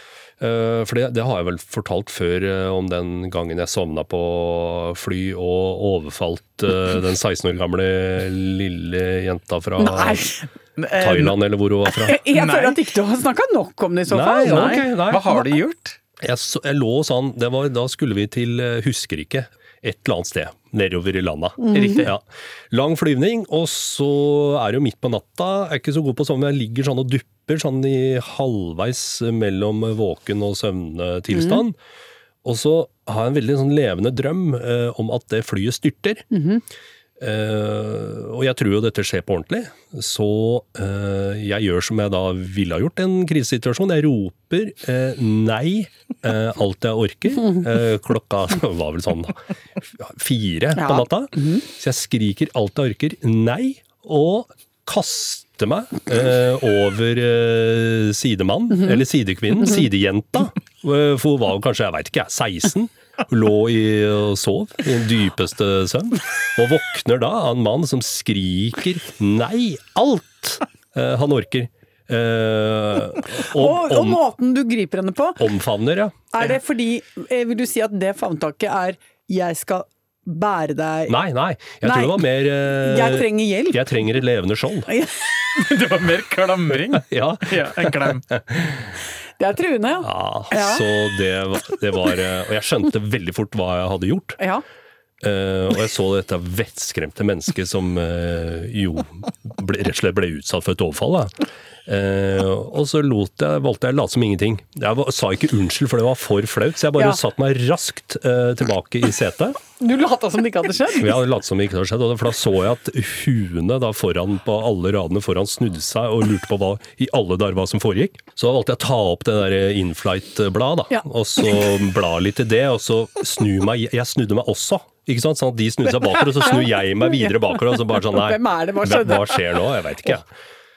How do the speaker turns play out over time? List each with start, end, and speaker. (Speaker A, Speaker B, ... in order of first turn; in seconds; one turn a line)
Speaker A: 0.4-10.3
Speaker B: 9.8-10.3
Speaker C: 10.8-11.4
Speaker A: 11.0-12.2
Speaker B: 12.0-15.5
Speaker C: 12.3-12.8
Speaker A: 14.1-15.3
Speaker C: 14.4-16.0
Speaker A: 16.2-31.8
Speaker B: 21.6-22.1
Speaker C: 21.7-22.1
Speaker B: 31.3-31.6
Speaker A: 32.4-36.3
Speaker B: 36.3-36.6
Speaker A: 37.2-74.2
Speaker B: 50.8-51.6
Speaker B: 73.4-75.5
Speaker A: 75.4-76.2
Speaker B: 76.3-81.2
Speaker A: 81.1-84.9
Speaker B: 81.8-83.9
Speaker B: 84.9-85.2
Speaker C: 85.5-88.2
Speaker A: 86.9-88.9
Speaker B: 89.4-90.8
Speaker A: 90.0-94.4
Speaker A: 95.2-101.3
Speaker A: 101.9-109.6
Speaker B: 109.8-111.2
Speaker A: 110.9-130.3
Speaker B: 126.5-129.6